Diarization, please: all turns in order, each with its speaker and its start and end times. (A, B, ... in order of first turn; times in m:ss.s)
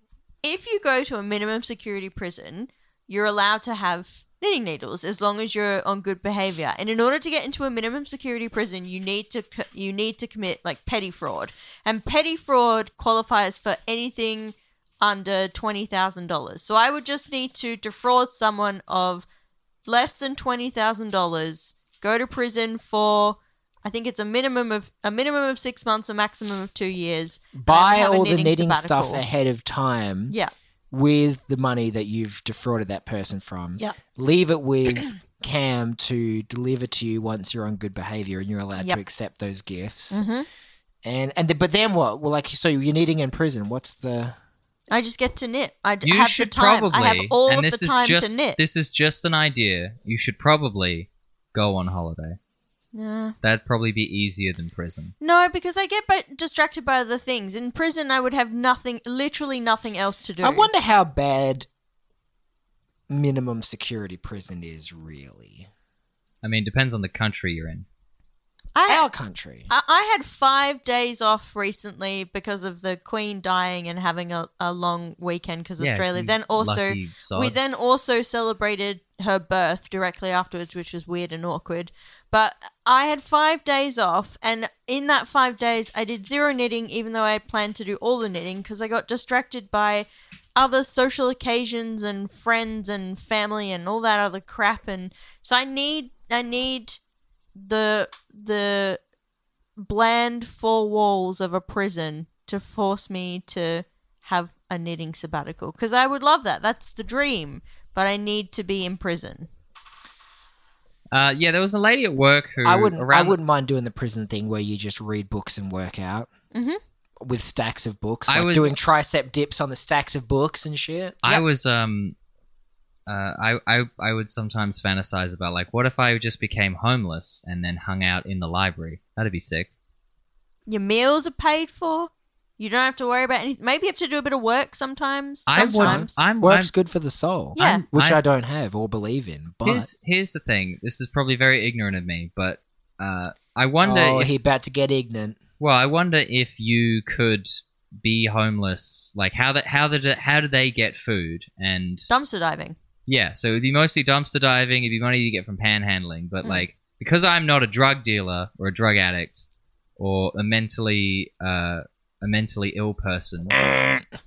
0:00.4-0:19.2 A
0:19.8-0:29.2 A
0:27.5-0:30.4 B
0:30.9-0:40.2 B
0:40.1-0:40.5 A
0:41.0-0:44.4 B
0:44.9-0:48.6 A
0:46.0-0:52.4 C
0:52.9-0:53.4 A
0:53.4-0:55.1 C
0:55.2-1:00.7 A
1:00.4-1:01.7 B
1:03.1-1:05.7 B
1:06.4-1:07.8 C
1:08.7-1:09.1 A
1:08.9-1:09.7 B
1:09.7-1:37.0 A
1:15.8-1:17.6 C
1:37.6-1:39.0 A
1:39.8-1:49.5 A
1:51.1-1:53.4 C
1:52.6-1:56.3 B
1:56.5-1:56.8 A
1:57.2-2:01.2 B
1:58.3-1:58.8 C
2:01.2-2:02.1 C
2:03.1-2:09.7 C
2:10.7-2:16.3 A
2:15.4-2:16.7 C
2:15.5-2:19.9 B
2:17.6-2:17.8 A
2:17.6-2:18.2 C
2:19.6-2:24.4 C
2:23.8-2:25.4 B
2:25.6-2:32.1 C
2:32.1-2:32.8 A
2:33.1-2:39.4 C
2:36.4-2:36.7 A
2:40.0-2:43.6 C
2:43.5-2:44.0 B